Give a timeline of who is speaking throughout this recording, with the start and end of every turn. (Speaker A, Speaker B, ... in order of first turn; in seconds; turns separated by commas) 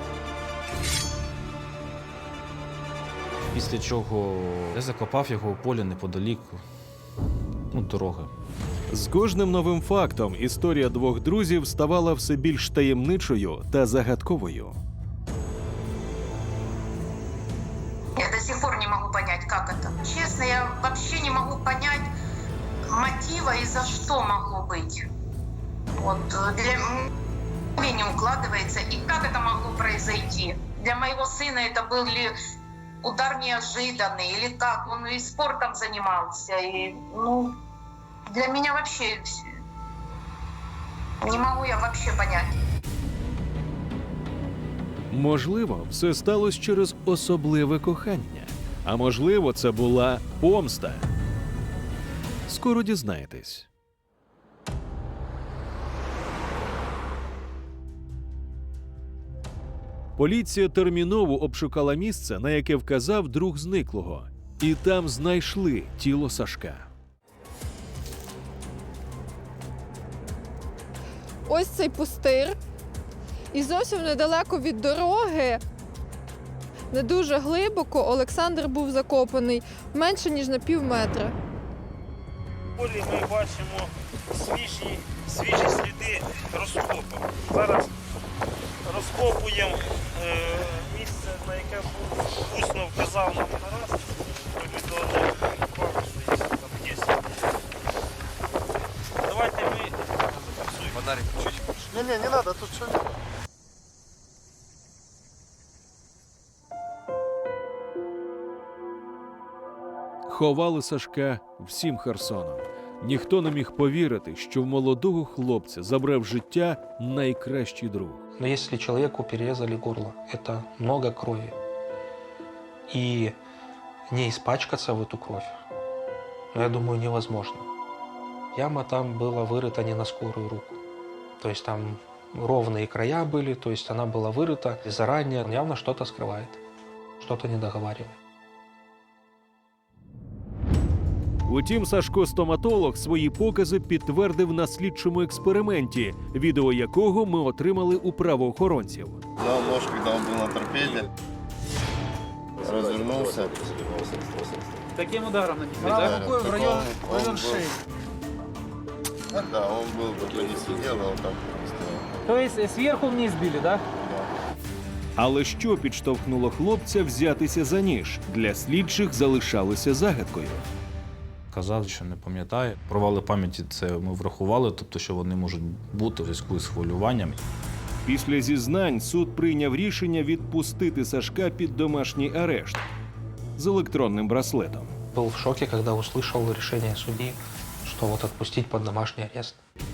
Speaker A: 3.5-6.6, Speaker A: 7.7-8.3, Speaker B: 8.9-14.8, Speaker C: 18.2-22.1, Speaker C: 22.9-25.0, Speaker C: 25.9-27.1, Speaker C: 27.8-32.3, Speaker C: 33.0-37.6, Speaker C: 38.3-39.5, Speaker C: 41.2-42.5, Speaker B: 45.1-51.0, Speaker B: 52.5-53.7, Speaker B: 60.2-66.9, Speaker D: 71.5-72.6, Speaker D: 73.5-75.6, Speaker D: 76.9-81.3, Speaker E: 82.7-87.9, Speaker E: 88.8-97.2, Speaker E: 99.2-101.2, Speaker B: 110.3-118.2, Speaker F: 118.4-121.5, Speaker F: 122.9-123.3, Speaker F: 124.1-125.5, Speaker F: 126.5-127.7, Speaker F: 128.5-130.8, Speaker F: 131.4-136.6, Speaker F: 137.2-138.2, Speaker B: 141.4-149.2, Speaker G: 149.4-151.1, Speaker G: 152.6-154.0, Speaker H: 154.9-157.7, Speaker G: 156.0-157.3, Speaker G: 159.3-161.9, Speaker H: 162.2-163.8, Speaker B: 165.2-170.6, Speaker A: 171.5-177.4, Speaker B: 178.0-182.8, Speaker B: 183.6-184.9, Speaker F: 185.1-189.6